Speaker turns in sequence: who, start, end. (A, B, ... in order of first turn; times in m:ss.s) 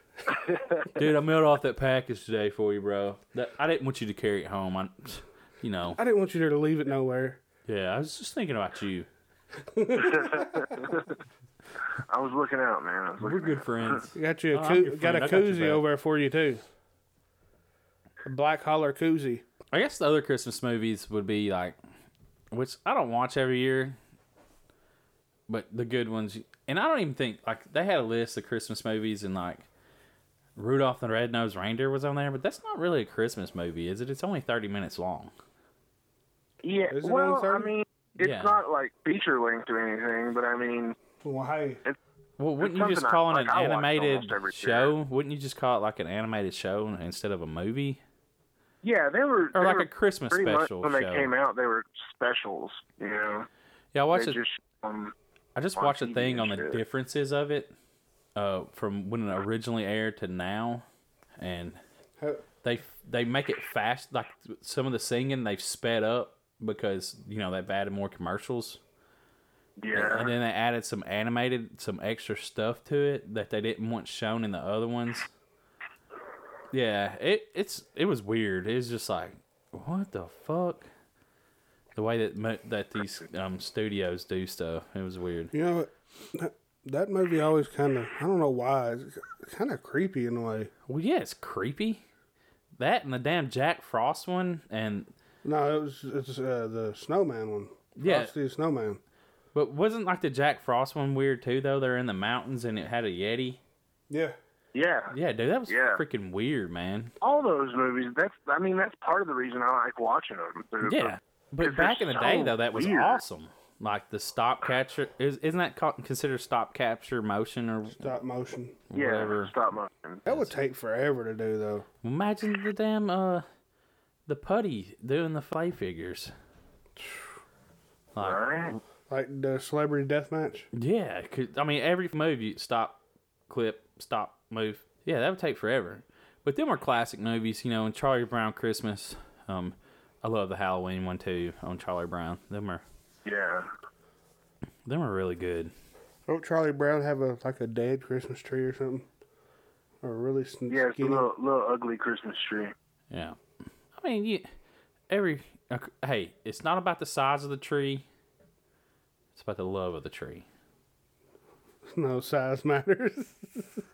0:00.6-0:00.8 A
0:00.9-0:06.0 B
0:06.0-0:07.4 C
0:07.7-0:09.1 B
0:09.6-0:10.8 C
0:10.0-0:11.2 A
0:11.9-0:14.0 A
0:13.2-0:15.8 B
0:14.2-0:16.6 C
0:18.2-0:19.4 C
0:19.7-0:21.8 B
0:22.5-0:24.0 B
0:25.5-0:29.7 B
0:30.6-0:35.3 B
0:36.6-0:41.0 A
0:36.9-0:37.7 C
0:38.2-0:38.6 B
0:41.2-0:41.8 C
0:42.4-0:48.0 B
0:42.6-0:44.9 A
0:48.8-0:53.5 A
0:49.5-0:51.3 B
0:53.9-0:54.4 B
0:54.1-0:55.1 A
0:55.6-0:57.7 B
0:55.8-0:56.8 A
0:58.4-1:00.8 B
1:01.4-1:01.8 B
1:02.2-1:02.4 C
1:02.6-1:08.8 B
1:09.8-1:10.3 A
1:09.9-1:15.3 B
1:16.7-1:20.9 B
1:22.0-1:25.5 B
1:25.5-1:30.7 C
1:30.9-1:32.0 B
1:32.8-1:35.1 B
1:35.4-1:39.0 C
1:38.0-1:38.3 B
1:39.5-1:43.6 B
1:44.1-1:44.4 C
1:44.7-1:45.2 A
1:45.1-1:47.1 B
1:45.7-1:46.0 A
1:47.2-1:53.2 A
1:50.8-1:58.1 B
1:58.0-1:58.8 C
1:58.9-1:59.5 B
1:59.0-2:00.2 A
2:00.3-2:01.9 C
2:02.0-2:03.4 B
2:04.3-2:06.3 B
2:08.2-2:08.8 B
2:08.2-2:08.7 A
2:09.1-2:10.7 C
2:10.7-2:22.8 B
2:23.2-2:23.7 A
2:24.9-2:25.7 B
2:26.3-2:29.1 C
2:30.0-2:31.3 C
2:30.7-2:32.7 A
2:33.1-2:33.4 B
2:34.0-2:34.5 B
2:35.1-2:38.0 B
2:39.4-2:40.5 B
2:41.8-2:43.8 C